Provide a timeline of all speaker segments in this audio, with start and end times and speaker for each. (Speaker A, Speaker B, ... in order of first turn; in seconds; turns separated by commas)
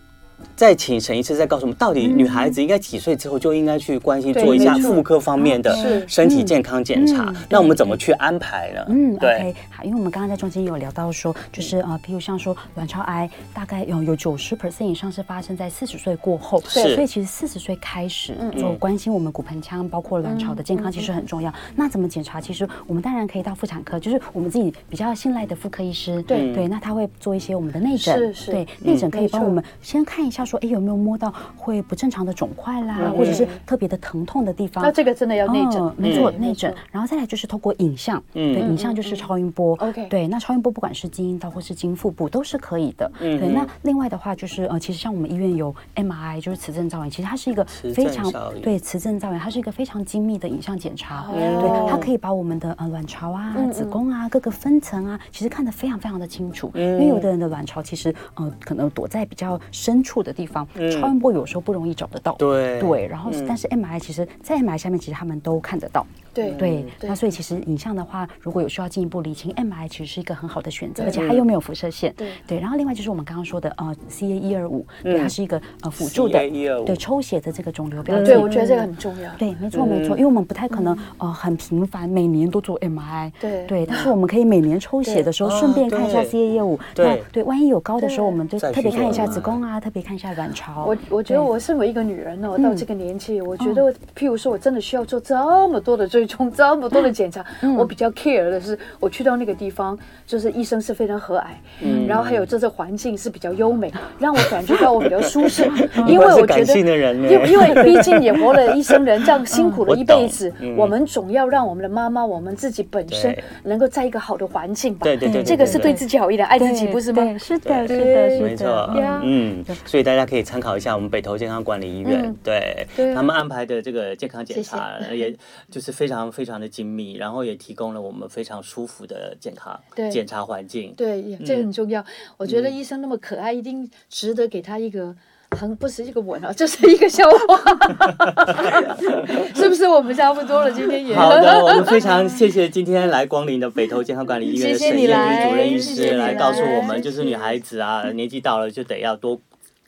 Speaker A: 0.6-9.5, Speaker B: 2.0-2.6, Speaker C: 4.3-5.1, Speaker B: 4.4-8.0, Speaker C: 5.7-6.1, Speaker B: 8.9-91.5, Speaker A: 16.7-17.1, Speaker C: 18.4-18.7, Speaker A: 18.5-18.8, Speaker C: 20.2-21.1, Speaker C: 26.3-26.6, Speaker A: 26.3-26.7, Speaker C: 28.0-29.6, Speaker A: 28.8-29.1, Speaker C: 33.0-33.6, Speaker A: 33.0-33.4, Speaker C: 34.8-36.8, Speaker A: 36.0-36.4, Speaker A: 38.3-38.8, Speaker C: 38.6-40.1, Speaker A: 43.2-43.7, Speaker A: 47.7-48.7, Speaker C: 51.1-52.1, Speaker A: 51.3-52.1, Speaker C: 53.5-54.0, Speaker A: 56.8-57.3, Speaker A: 60.8-61.1, Speaker A: 62.4-63.5, Speaker C: 66.3-67.2, Speaker A: 66.4-66.9, Speaker C: 71.0-71.2, Speaker A: 71.1-71.5, Speaker A: 75.0-75.3, Speaker A: 76.0-77.0, Speaker A: 78.1-78.6, Speaker C: 78.2-79.4, Speaker A: 79.7-80.2, Speaker C: 80.7-81.0, Speaker C: 83.4-84.1, Speaker A: 85.4-86.4, Speaker A: 87.0-87.3, Speaker C: 88.0-88.4, Speaker A: 88.6-89.6, Speaker C: 88.9-89.3, Speaker C: 90.8-119.3, Speaker B: 92.6-92.8, Speaker B: 93.6-93.8, Speaker B: 97.6-97.9, Speaker A: 101.8-102.5, Speaker B: 101.8-102.2, Speaker A: 105.0-109.0, Speaker B: 105.8-106.2, Speaker B: 107.7-108.1, Speaker B: 109.5-109.8, Speaker A: 109.8-110.9, Speaker A: 113.1-113.5, Speaker A: 115.0-116.0, Speaker B: 115.2-116.1, Speaker B: 116.6-119.8, Speaker A: 117.6-131.7, Speaker C: 122.0-122.4, Speaker C: 123.0-123.3, Speaker C: 124.5-125.3, Speaker C: 129.9-130.2, Speaker C: 131.0-142.3, Speaker A: 132.5-132.7, Speaker A: 141.1-149.4, Speaker C: 144.5-147.2, Speaker B: 144.9-147.3